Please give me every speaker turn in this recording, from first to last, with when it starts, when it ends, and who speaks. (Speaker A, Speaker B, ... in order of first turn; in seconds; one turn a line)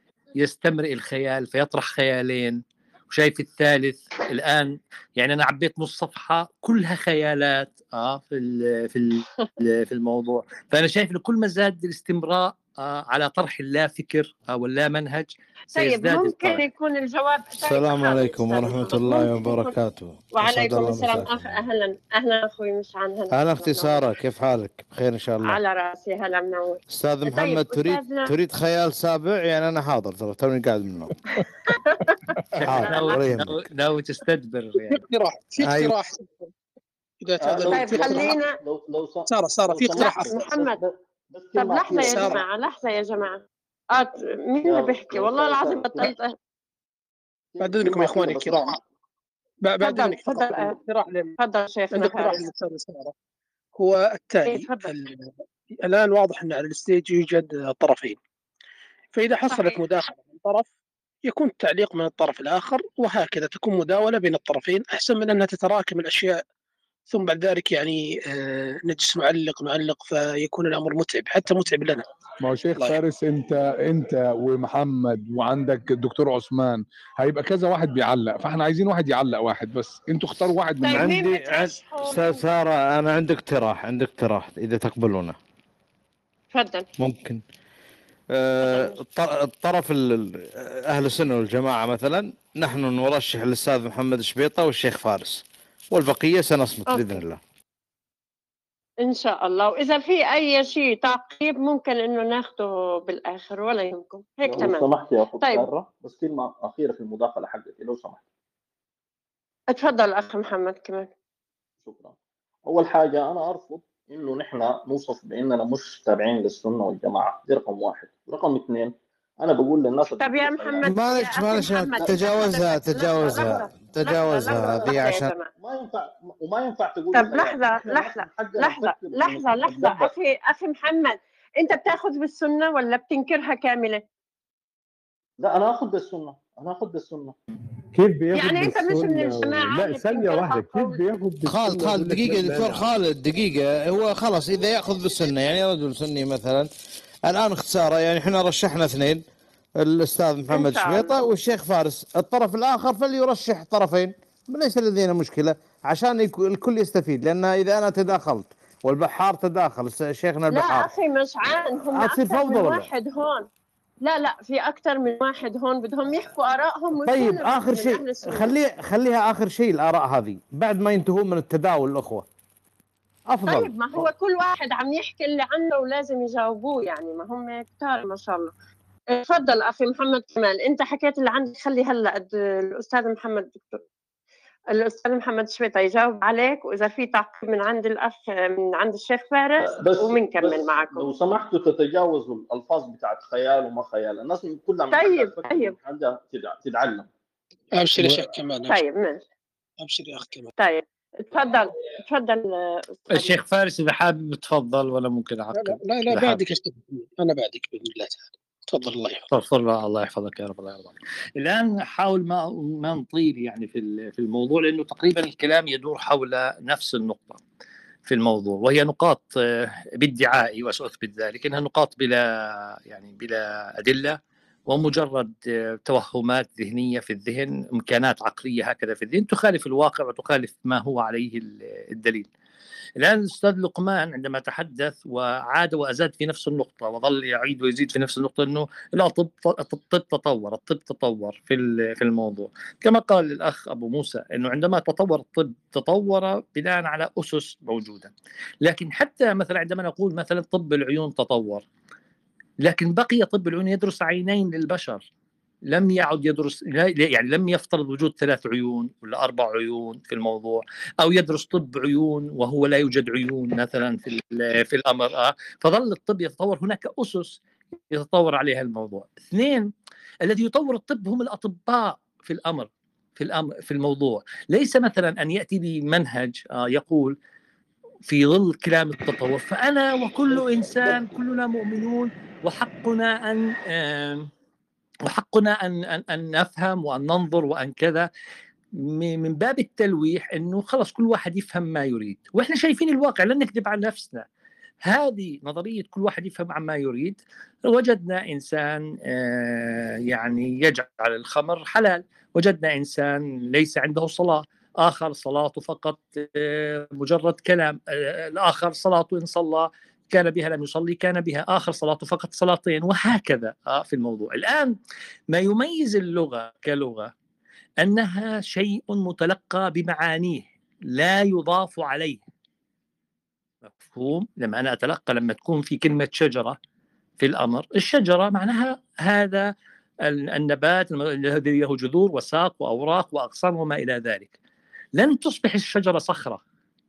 Speaker A: 0.4-16.6
Speaker B: 15.7-19.7
Speaker C: 17.6-21.6
Speaker B: 20.3-24.1
Speaker C: 23.3-25.6
Speaker B: 25.4-28.3
Speaker C: 26.9-31.1
Speaker B: 31.7-32.1
Speaker A: 32.6-35.0
Speaker C: 32.6-33.6
Speaker B: 32.8-33.2
Speaker D: 34.9-36.5
Speaker C: 35.6-36.0
Speaker D: 37.2-38.4
Speaker E: 37.4-42.5
Speaker B: 37.7-38.5
Speaker D: 39.3-40.3
Speaker B: 40.0-40.8
Speaker B: 41.5-43.4
Speaker D: 42.0-42.4
Speaker B: 43.9-46.3
Speaker E: 44.6-46.1
Speaker E: 47.5-48.8
Speaker D: 47.6-48.8
Speaker D: 49.6-51.3
Speaker B: 49.8-50.7
Speaker B: 51.4-52.4
Speaker D: 51.9-53.1
Speaker D: 53.8-55.3
Speaker B: 54.5-54.9
Speaker D: 55.8-58.2
Speaker D: 59.1-60.7
Speaker B: 59.5-59.8
Speaker D: 61.3-66.3
Speaker D: 67.1-72.0
Speaker F: 72.4-81.2
Speaker B: 80.8-82.4
Speaker C: 80.9-85.4
Speaker B: 86.5-86.9
Speaker C: 87.0-87.4
Speaker C: 88.3-97.4
Speaker B: 88.7-88.9
Speaker B: 99.0-104.8
Speaker E: 104.4-108.2
Speaker B: 109.7-111.1
Speaker E: 111.8-112.1
Speaker E: 112.7-120.9
Speaker B: 120.2-125.5
Speaker C: 120.8-125.3
Speaker E: 125.5-130.1
Speaker B: 127.1-134.0
Speaker E: 135.4-137.3
Speaker G: 137.9-142.8
Speaker B: 138.3-141.0
Speaker C: 141.4-146.7
Speaker C: 147.3-149.2
Speaker C: 149.8-160.9
Speaker B: 150.5-151.2
Speaker B: 160.5-163.4
Speaker C: 161.9-162.9
Speaker B: 164.0-168.5
Speaker C: 167.1-172.2
Speaker C: 173.3-174.0
Speaker B: 173.5-178.5
Speaker B: 179.1-183.8
Speaker B: 184.7-191.1
Speaker E: 189.6-197.1
Speaker B: 194.9-195.7
Speaker D: 197.8-198.8
Speaker B: 198.7-199.2
Speaker D: 199.8-200.5
Speaker B: 200.6-203.3
Speaker A: 203.1-206.4
Speaker D: 205.5-209.2
Speaker A: 209.3-217.4
Speaker A: 218.1-232.3
Speaker A: 233.0-248.1
Speaker A: 248.6-251.6
Speaker A: 252.6-255.0
Speaker A: 255.7-267.4
Speaker A: 267.9-269.7
Speaker A: 270.2-277.1
Speaker A: 278.1-284.3
Speaker A: 285.1-288.1
Speaker A: 288.8-294.2
Speaker A: 294.8-314.8
Speaker A: 315.3-317.1
Speaker A: 317.8-322.2
Speaker A: 323.7-326.6
Speaker A: 327.2-329.5
Speaker A: 330.0-334.3
Speaker A: 334.9-336.4